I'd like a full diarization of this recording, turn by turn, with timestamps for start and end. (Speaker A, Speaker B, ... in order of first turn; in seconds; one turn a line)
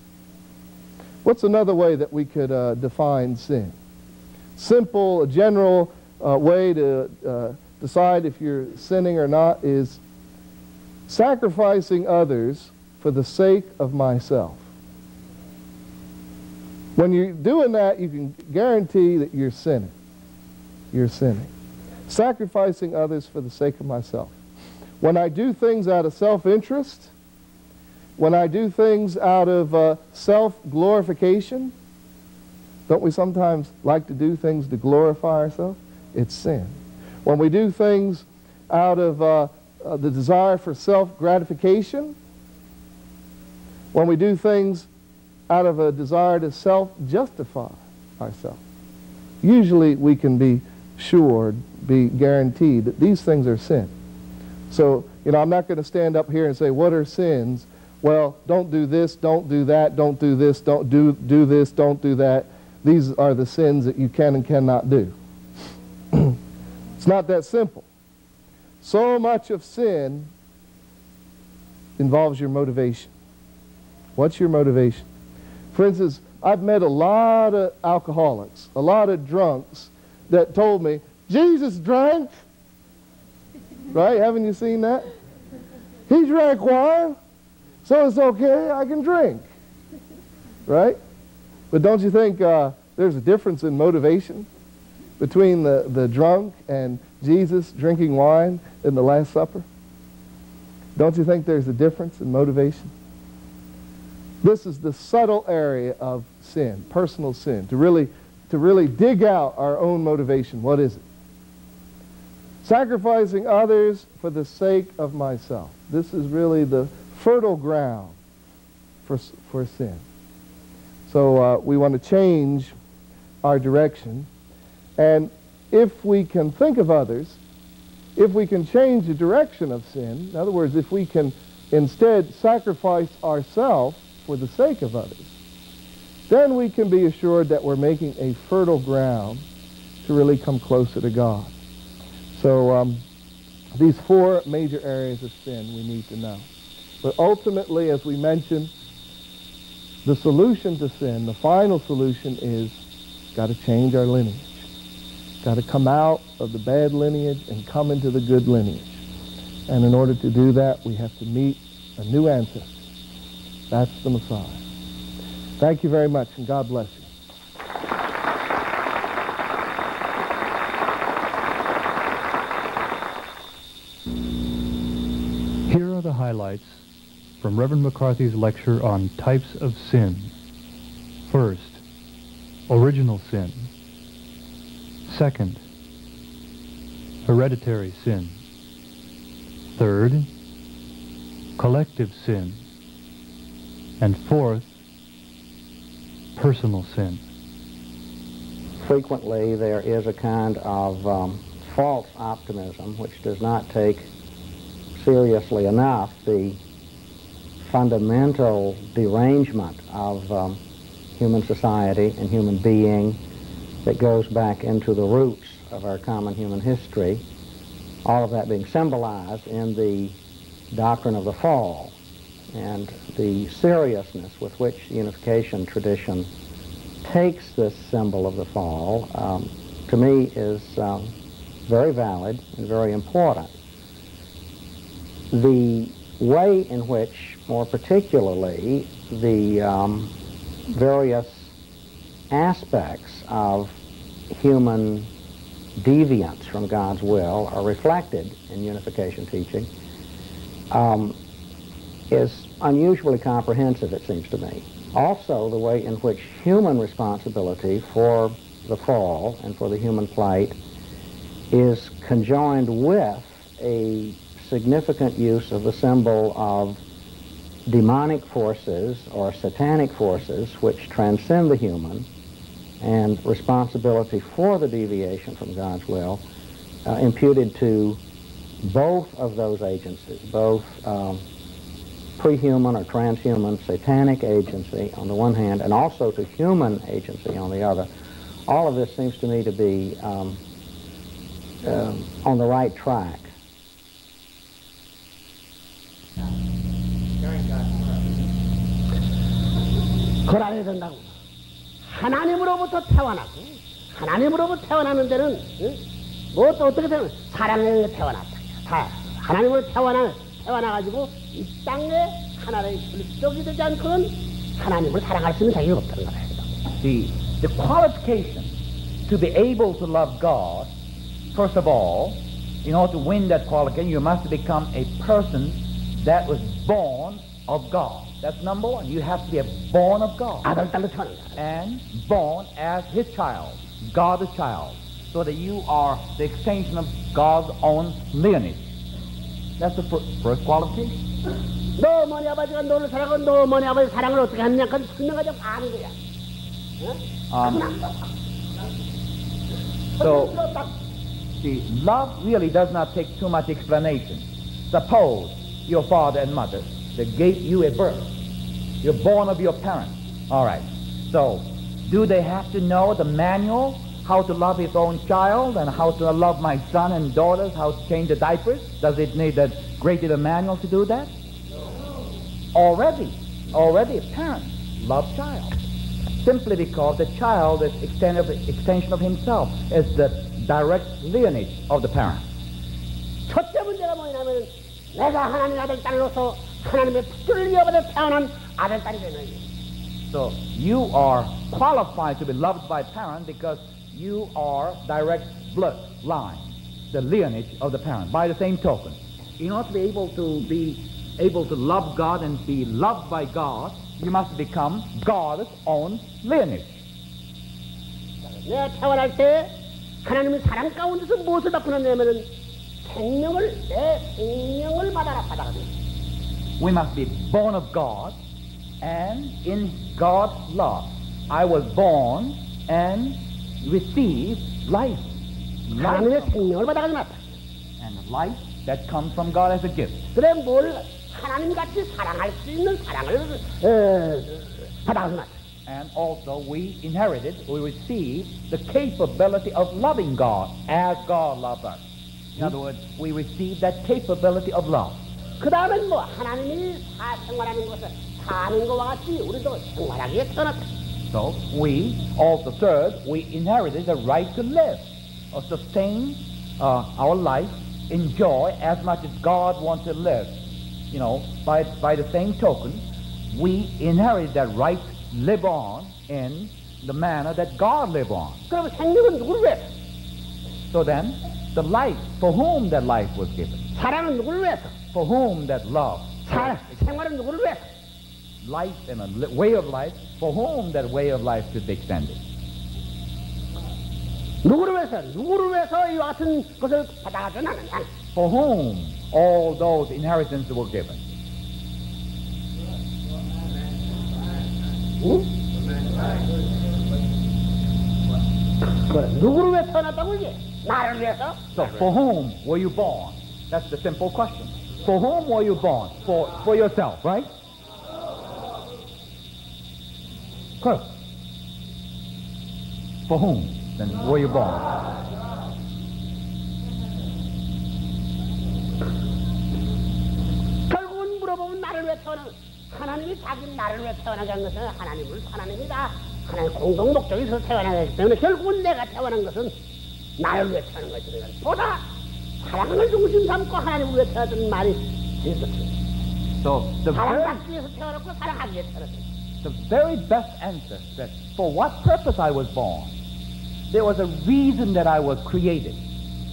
Speaker A: 1.2-3.7
Speaker A: 4.5-10.0
Speaker A: 11.1-14.6
Speaker A: 16.9-19.9
Speaker A: 20.9-21.5
Speaker A: 22.1-24.3
Speaker A: 25.0-27.1
Speaker A: 28.2-31.7
Speaker A: 32.9-42.1
Speaker A: 43.9-44.9
Speaker A: 45.5-48.6
Speaker A: 49.4-53.9
Speaker A: 54.7-65.1
Speaker A: 67.0-67.8
Speaker A: 68.8-70.3
Speaker A: 72.0-73.1
Speaker A: 74.2-75.1
Speaker A: 75.7-82.4
Speaker A: 83.9-85.0
Speaker A: 86.1-87.2
Speaker A: 87.8-89.5
Speaker A: 90.7-91.0
Speaker A: 91.7-94.5
Speaker A: 95.2-99.7
Speaker A: 101.0-102.9
Speaker A: 104.4-111.0
Speaker A: 112.6-118.2
Speaker A: 119.0-120.0
Speaker A: 121.1-122.7
Speaker A: 123.4-124.3
Speaker A: 125.0-127.4
Speaker A: 128.2-135.3
Speaker A: 136.3-139.4
Speaker A: 140.0-141.5
Speaker A: 142.3-143.0
Speaker A: 143.8-146.5
Speaker A: 147.0-148.7
Speaker A: 150.0-152.8
Speaker A: 153.3-154.7
Speaker A: 155.4-159.0
Speaker A: 159.7-162.7
Speaker A: 163.7-164.6
Speaker A: 165.6-167.1
Speaker B: 175.7-176.7
Speaker B: 177.4-180.3
Speaker B: 181.3-181.8
Speaker B: 182.7-183.7
Speaker B: 185.1-185.6
Speaker B: 187.2-188.3
Speaker B: 189.8-190.3
Speaker B: 191.6-192.6
Speaker B: 194.0-194.7
Speaker B: 196.3-197.2
Speaker C: 198.8-204.1
Speaker C: 204.9-206.6
Speaker C: 207.6-210.6
Speaker C: 211.2-213.2
Speaker C: 213.8-217.2
Speaker C: 218.0-220.2
Speaker C: 220.7-221.9
Speaker C: 222.5-226.3
Speaker C: 227.0-231.1
Speaker C: 231.7-233.5
Speaker C: 235.3-240.1
Speaker C: 240.7-241.5
Speaker C: 242.3-243.8
Speaker C: 244.3-245.1
Speaker C: 245.8-249.7
Speaker C: 250.7-251.2
Speaker C: 252.1-260.6
Speaker C: 261.5-266.8
Speaker C: 267.7-272.1
Speaker C: 272.8-276.2
Speaker C: 276.8-278.0
Speaker C: 278.6-281.2
Speaker C: 282.2-287.9
Speaker C: 288.5-290.4
Speaker C: 291.6-293.3
Speaker D: 300.2-301.1
Speaker D: 301.8-305.8
Speaker D: 306.3-316.4
Speaker E: 316.8-318.5
Speaker E: 319.1-320.7
Speaker E: 321.3-330.5
Speaker D: 330.4-331.3
Speaker E: 331.4-338.7
Speaker E: 339.6-341.0
Speaker D: 341.8-345.9
Speaker D: 346.8-347.9
Speaker E: 347.3-347.7
Speaker E: 350.0-350.4
Speaker D: 350.0-350.7
Speaker E: 351.4-358.1
Speaker E: 358.8-371.1
Speaker E: 372.5-375.6
Speaker E: 376.2-382.3
Speaker D: 383.3-389.4
Speaker E: 390.1-406.8
Speaker D: 408.3-412.3
Speaker D: 412.8-415.7
Speaker E: 416.6-418.1
Speaker E: 418.8-425.0
Speaker E: 425.7-426.5
Speaker D: 425.8-427.2
Speaker E: 427.8-430.1
Speaker D: 430.1-435.3
Speaker E: 435.6-441.8
Speaker E: 442.3-445.0
Speaker D: 445.4-450.6
Speaker E: 451.1-460.3
Speaker E: 460.9-468.4
Speaker D: 468.5-469.7
Speaker E: 470.7-473.7
Speaker D: 473.7-474.7
Speaker E: 474.9-476.8
Speaker D: 476.3-477.7
Speaker E: 478.4-482.2
Speaker D: 484.4-487.9
Speaker E: 488.1-491.0
Speaker D: 495.0-495.3
Speaker D: 498.7-501.8
Speaker E: 501.5-507.3
Speaker E: 513.1-514.8
Speaker D: 520.7-529.5
Speaker D: 530.2-531.8
Speaker D: 532.4-535.8
Speaker E: 536.4-537.4
Speaker D: 536.9-539.0
Speaker E: 539.4-543.0
Speaker E: 543.7-545.8